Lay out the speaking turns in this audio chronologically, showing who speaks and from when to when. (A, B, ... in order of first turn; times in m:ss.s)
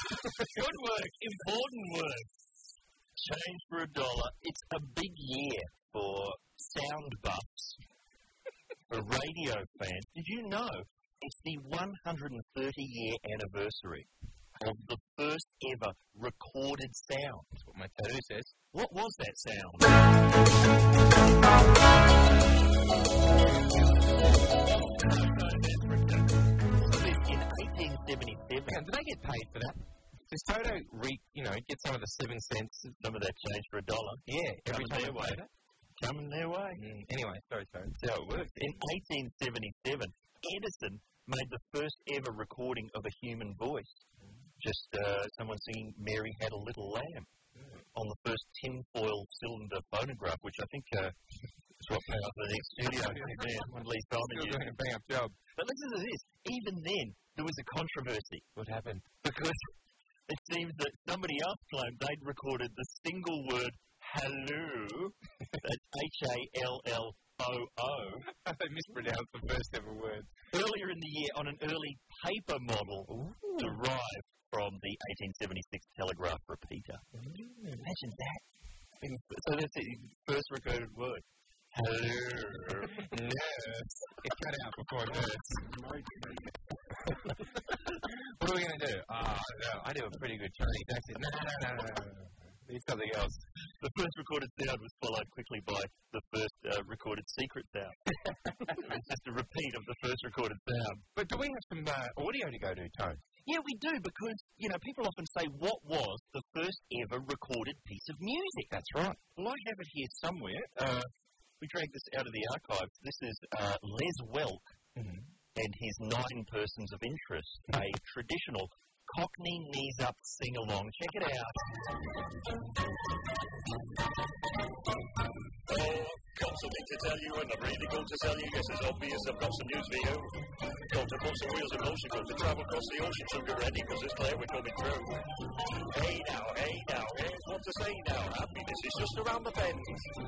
0:00.3-0:07.8 A
0:08.9-0:17.5 A
0:17.5-0:18.6 B
0:18.7-0:20.0 A
0:24.6-0:28.8 A
0:28.7-0:32.9 B
0:32.9-0:35.4 A
0:34.3-0:35.5 B
0:36.0-0:36.8 A
0:36.7-0:38.8 B
0:38.0-0:44.0 A
0:44.6-0:47.3 A
0:47.6-0:47.8 B
0:47.9-0:51.1 A
0:51.8-0:54.7 A
0:51.8-0:53.7 B
0:54.3-0:55.4 B
0:55.5-0:58.5 A
0:58.5-0:59.1 B
0:59.2-0:59.7 A
1:00.3-1:08.2 A
1:08.3-1:10.3 B
1:10.5-1:17.0 A
1:13.1-1:13.8 B
1:17.1-1:17.9 B
1:17.8-1:18.4 A
1:19.0-1:23.1 A
1:23.0-1:25.6 B
1:27.2-1:33.4 B
1:33.8-1:38.0 A
1:38.7-1:41.0 A
1:41.1-1:43.2 B
1:43.4-1:48.7 A
1:48.7-1:49.2 B
1:49.3-1:54.8 A
1:54.9-1:55.3 B
1:55.5-2:01.6 A
2:05.7-2:10.3 C
2:10.9-2:15.2 C
2:15.9-2:20.1 C